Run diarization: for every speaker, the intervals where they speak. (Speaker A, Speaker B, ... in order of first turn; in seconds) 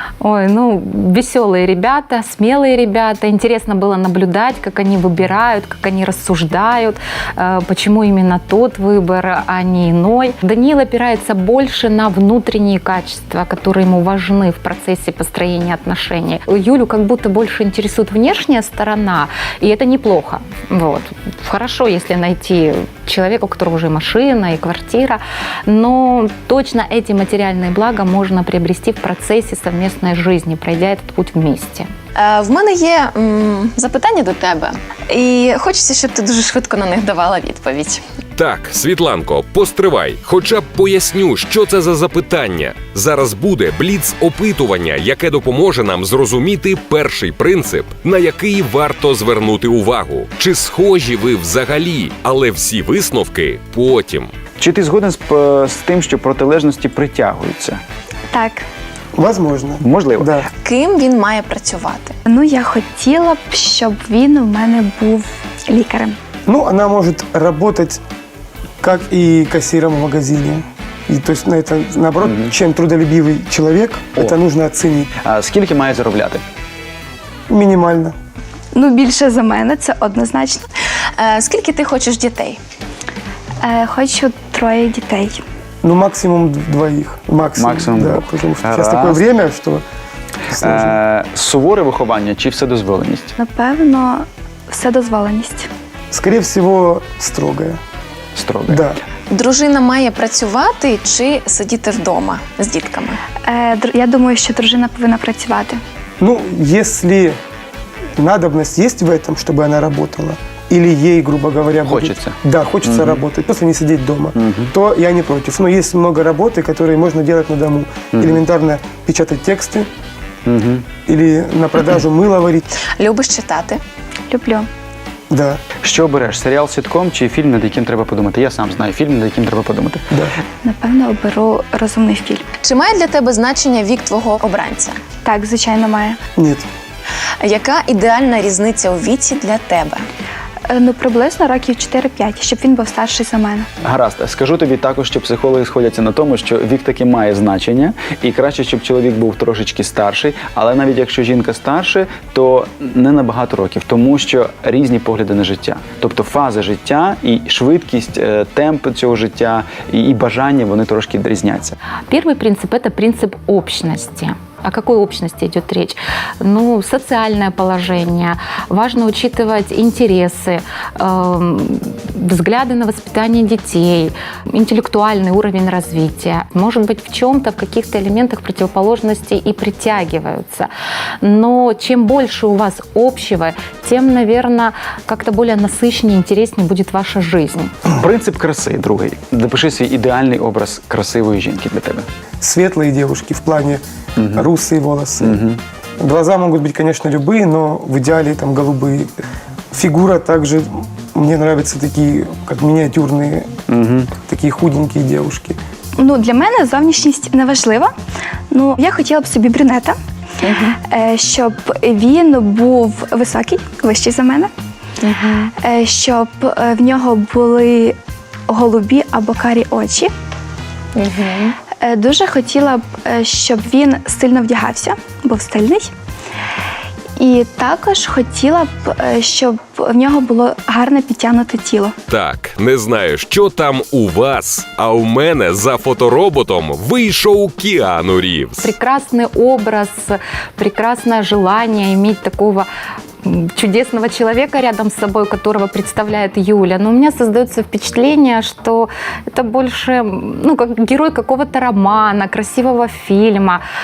Speaker A: 0.2-31.9, 162.1-180.7, 181.2-187.7, 238.6-242.7, 243.2-253.6
Speaker B: 32.2-38.0, 60.6-62.2, 81.2-82.6, 99.3-103.2, 122.8-123.8, 132.6-135.0, 137.4-140.1, 210.4-210.8, 215.0-215.5, 220.9-221.6
Speaker C: 38.4-54.3, 232.1-238.7
Speaker D: 54.6-57.8, 59.8-60.4, 72.2-72.5, 75.2-76.4, 87.6-89.2, 90.5-93.3, 98.3-98.9, 111.9-113.2, 114.4-114.7, 118.1-118.4, 120.5-120.9, 125.8-130.1, 143.8-161.8, 187.9-192.1, 194.2-194.4, 195.2-195.6, 203.7-204.1
Speaker E: 58.3-58.7, 62.3-66.2, 78.7-80.7, 83.6-85.4, 93.4-95.7, 103.4-105.8, 124.3-124.7, 130.6-132.5, 135.2-136.2, 140.7-143.7, 206.0-207.9, 208.5-210.0, 210.8-214.5, 215.6-218.0, 218.5-220.1, 221.8-225.9, 227.2-231.9
Speaker F: 59.1-60.5, 66.5-68.0, 68.8-75.1, 77.5-78.2, 85.8-89.8, 90.5-91.0, 96.1-97.8, 98.7-99.0, 106.2-107.4, 108.2-119.9, 121.1-122.7, 125.3-125.6, 136.4-136.7, 192.4-193.8, 194.3-195.4, 196.0-199.1, 199.7-203.6, 204.2-205.6